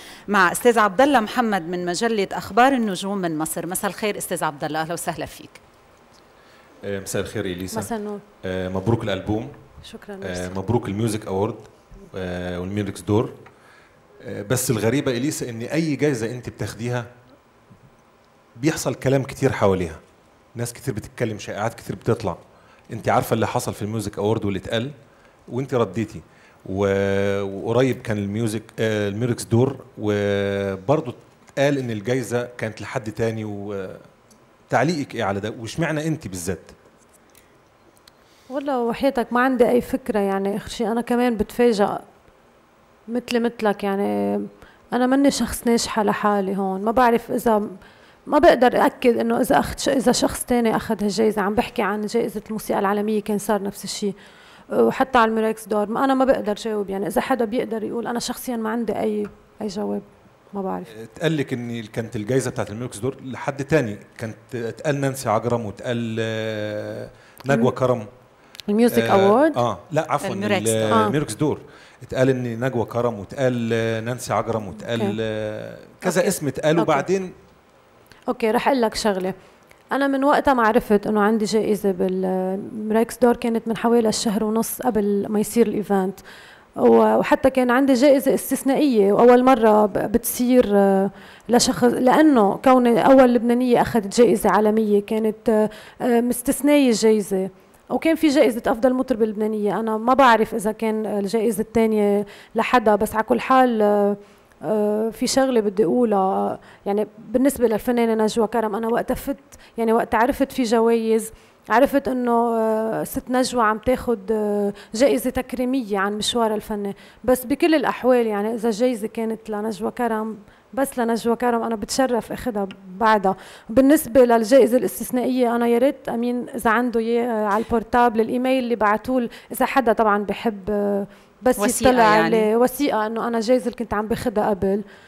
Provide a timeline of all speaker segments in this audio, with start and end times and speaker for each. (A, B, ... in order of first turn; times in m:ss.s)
0:00.3-0:05.6 A
0:06.8-0:07.9 B
0:07.7-0:08.2 C
0:08.4-0:09.6 B
0:09.8-0:10.5 C
0:10.2-0:13.3 B
0:14.2-0:17.1 B
0:18.6-0:20.0 B
0:20.5-0:22.4 B
0:22.9-0:24.9 B
0:25.5-0:34.1 B
0:34.7-0:36.7 B
0:38.5-0:42.0 C
0:43.1-0:47.6 C
0:48.3-0:54.1 C
0:54.7-1:00.9 C
1:00.9-1:08.1 B
1:08.7-1:09.6 C
1:08.9-1:17.3 B
1:10.2-1:11.1 A
1:10.9-1:11.2 C
1:14.8-1:15.2 C
1:16.0-1:17.1 C
1:18.3-1:19.3 C
1:19.9-1:26.2 C
1:26.8-2:14.8 C
2:11.6-2:12.5 A